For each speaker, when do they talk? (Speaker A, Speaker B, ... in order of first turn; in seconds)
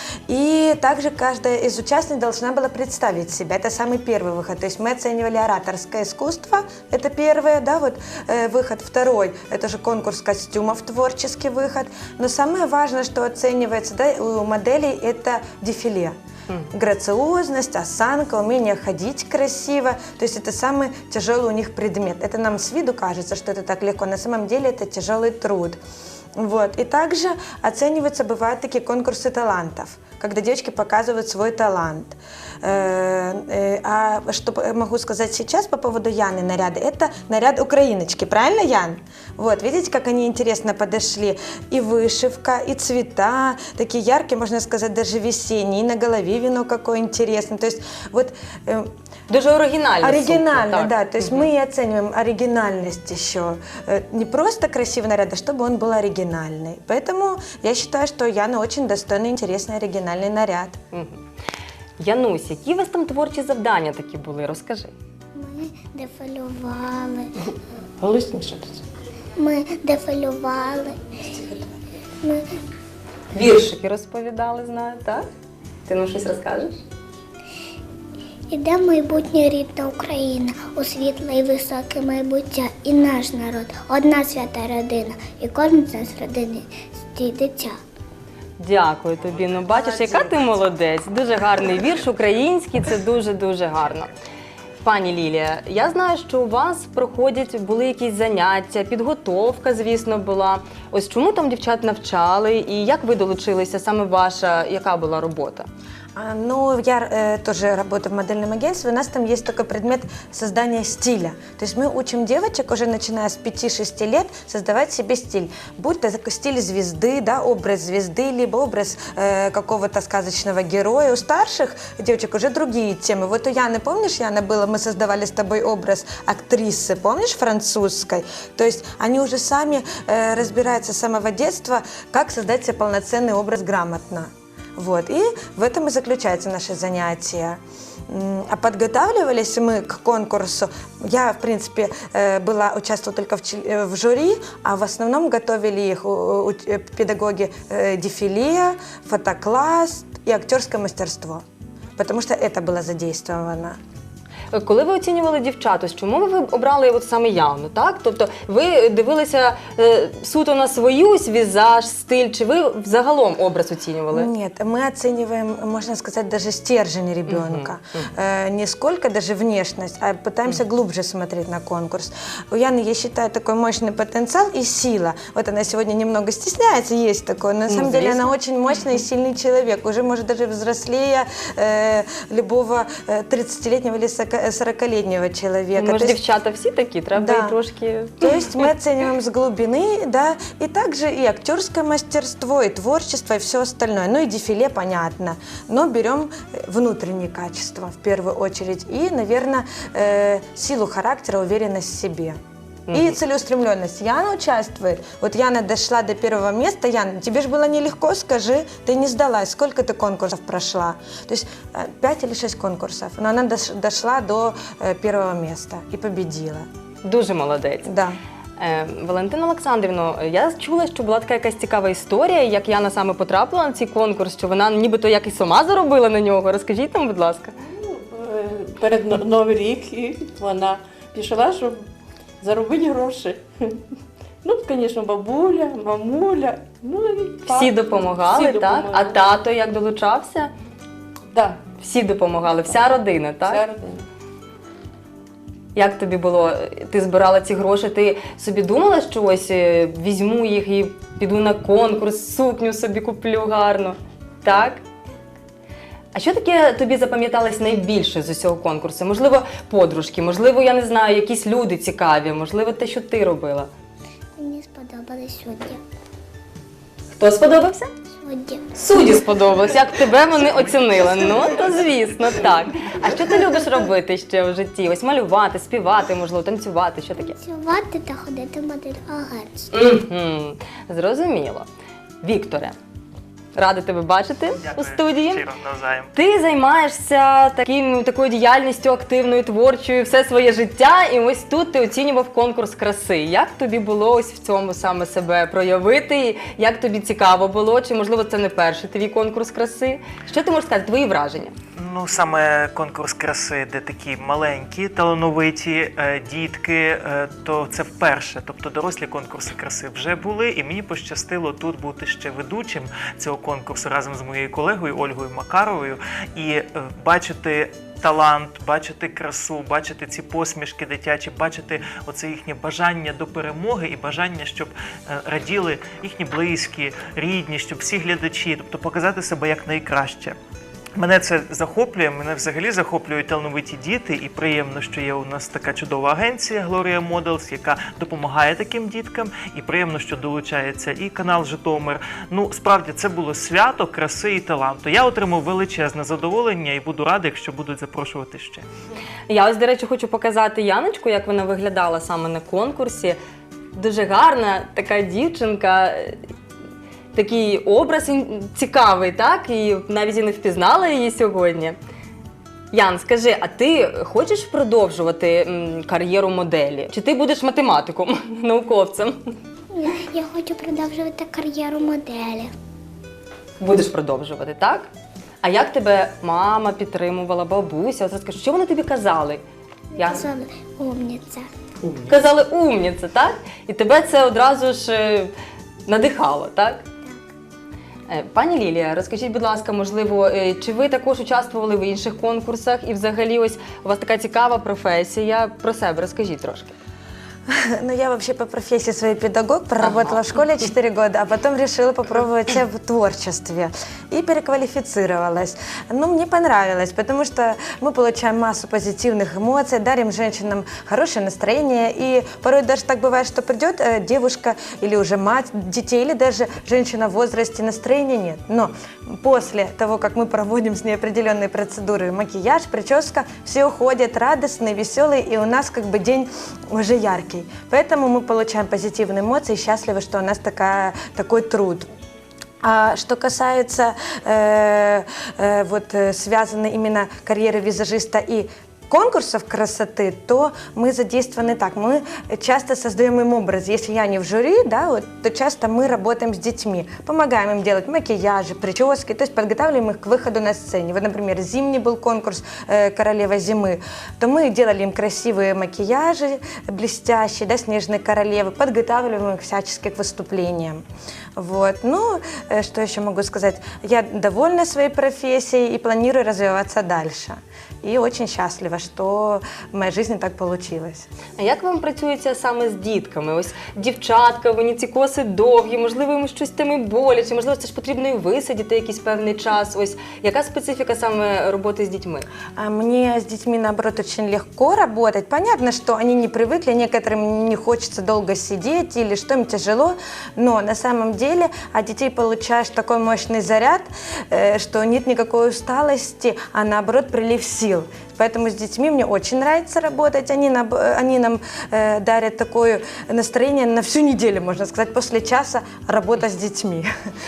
Speaker A: 0.3-16.2, 16.7-25.8, 26.4-48.9, 50.0-60.8, 89.7-90.5, 106.2-151.4, 152.0-153.8, 164.1-186.2, 187.2-187.6, 188.2-202.4, 202.9-216.7, 217.8-218.2, 397.5-431.9, 432.6-460.8, 461.4-471.1, 482.6-506.9
Speaker B: 49.3-51.5, 60.9-61.2, 62.0-64.9, 73.3-75.3, 75.9-76.8, 88.6-94.1, 94.8-105.7, 154.5-164.3, 167.3-168.1, 177.7-178.3, 185.8-188.3, 202.9-203.2, 217.0-217.9, 218.6-227.5, 237.5-240.5, 241.8-243.6, 245.8-254.8, 256.1-263.7, 267.1-267.9, 268.8-277.4, 279.7-281.7, 282.2-282.8, 283.6-285.4, 286.1-301.6, 349.3-353.2, 353.7-356.2, 357.1-361.8, 362.7-369.2, 373.6-374.9, 375.4-379.4, 380.0-380.3, 382.1-385.3, 385.9-386.8, 388.1-396.8, 399.8-400.2, 471.4-482.3
Speaker C: 65.3-67.3, 69.4-71.0, 78.5-87.8, 264.4-265.8, 268.2-268.7, 277.3-279.7, 369.7-372.5, 379.9-381.5
Speaker D: 68.0-68.8, 227.7-231.9, 232.4-233.8, 234.4-239.2, 241.3-241.6, 243.5-244.1
Speaker E: 284.6-286.1, 301.8-330.4, 331.0-348.7